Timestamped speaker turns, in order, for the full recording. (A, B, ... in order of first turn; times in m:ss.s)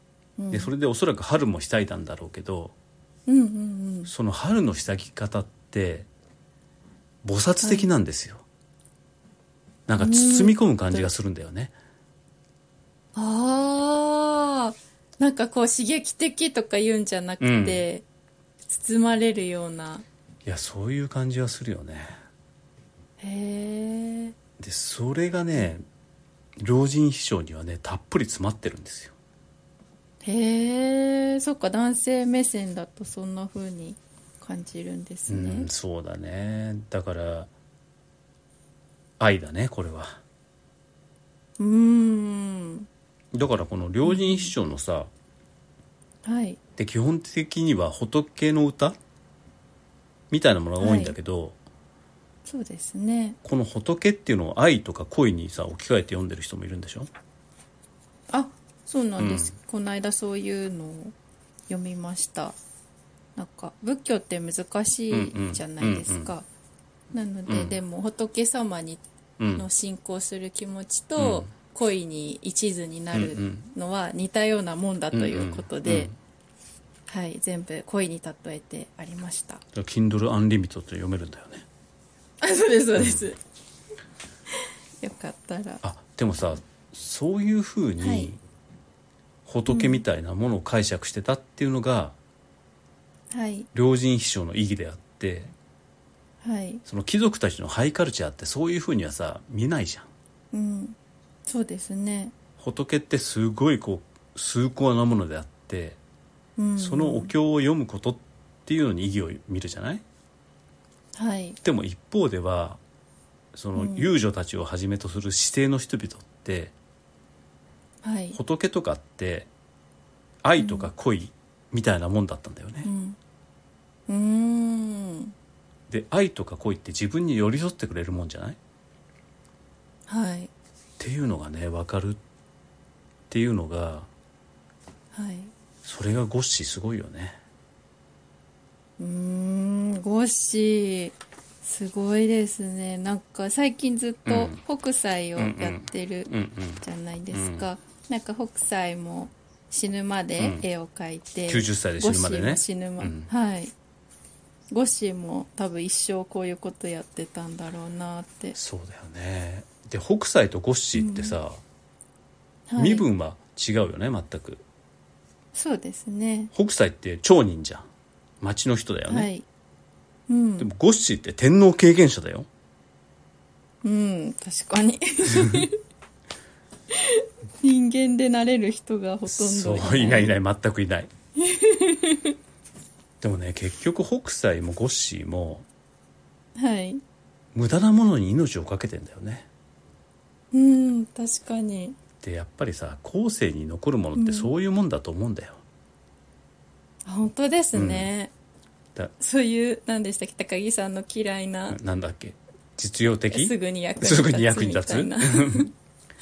0:00.4-0:00.7 A
0:00.5-0:02.7 B
0:03.3-0:04.1 A
0:04.1-0:06.1 B
0:07.2-0:08.4 B
0:07.6-0:07.9 A
0:09.9-0:11.7 B
0:10.0-0:11.1 A
0:13.2-0:18.0 A
0:17.4-0:17.8 B
0:18.7-0:20.0 A
0:20.4-0:22.1 B
0:23.2-0:24.4 A
0:24.6-0:25.8 B
0:26.6-0:29.1 B
0:30.2-0:35.7 A
0:35.3-0:37.5 B
0:39.2-0:40.2 B
0:41.6-0:42.9 A
0:43.3-0:45.1 B
0:44.0-0:44.5 A
0:46.2-0:46.6 A
0:46.8-0:49.0 B
0:50.3-0:51.6 B
0:50.8-0:51.2 A
0:52.5-0:53.4 A
0:53.4-0:57.1 B
0:58.3-1:01.1 A
0:59.2-0:59.5 B
1:01.7-1:02.6 A
1:03.4-1:06.5 A
1:05.1-1:06.3 B
1:07.1-1:09.0 A
1:07.5-1:07.8 B
1:09.4-1:09.6 B
1:09.5-1:16.1 A
1:11.2-1:11.5 B
1:13.1-1:13.7 B
1:15.1-1:16.1 B
1:17.1-1:19.6 A
1:19.8-1:21.6 B
1:22.4-1:23.4 A
1:23.0-1:23.2 B
1:25.0-1:25.8 A
1:25.8-1:28.4 B
1:28.0-1:28.3 A
1:29.5-1:32.2 B
1:29.7-1:30.0 A
1:33.3-1:33.7 A
1:33.7-1:35.5 B
1:36.4-1:36.8 A
1:36.9-1:40.1 B
1:40.5-1:42.3 A
1:42.6-1:46.0 B
1:46.6-1:47.3 A
1:46.8-1:50.0 B
1:51.2-1:51.6 A
1:51.6-1:52.8 B
1:53.5-1:56.7 B
1:53.8-1:54.1 A
1:58.0-1:58.4 A
1:58.3-1:59.5 B
2:00.4-2:02.9 B
2:00.6-2:00.9 A
2:02.8-2:03.2 A
2:04.1-2:05.3 A
2:05.9-2:08.6 B
2:10.1-2:10.5 A
2:11.0-2:12.2 B
2:13.3-2:14.1 B
2:15.1-2:15.5 A
2:15.8-2:17.4 B
2:19.0-2:33.7 A
2:24.3-2:24.6 B
2:25.4-2:26.8 B
2:27.3-2:27.6 B
2:31.5-2:33.3 B
2:34.7-2:38.6 A
2:38.6-2:41.6 B
2:40.9-2:41.4 A
2:42.7-2:43.0 A
2:42.8-2:44.6 B
2:45.5-2:46.5 A
2:46.5-2:47.9 B
2:48.4-2:49.3 B
2:49.1-2:49.4 A
2:50.3-2:50.7 A
2:50.6-2:52.5 B
2:53.8-2:55.7 A
2:56.9-3:00.4 A
2:59.3-3:01.1 B
3:01.4-3:02.4 A
3:03.2-3:05.7 B
3:06.6-3:07.0 A
3:07.5-3:09.5 B
3:10.5-3:12.0 A
3:12.2-3:15.6 B
3:14.2-3:14.5 A
3:17.1-3:18.3 A
3:17.7-3:18.1 B
3:19.2-3:21.8 A
3:21.7-3:25.7 B
3:23.3-3:25.7 A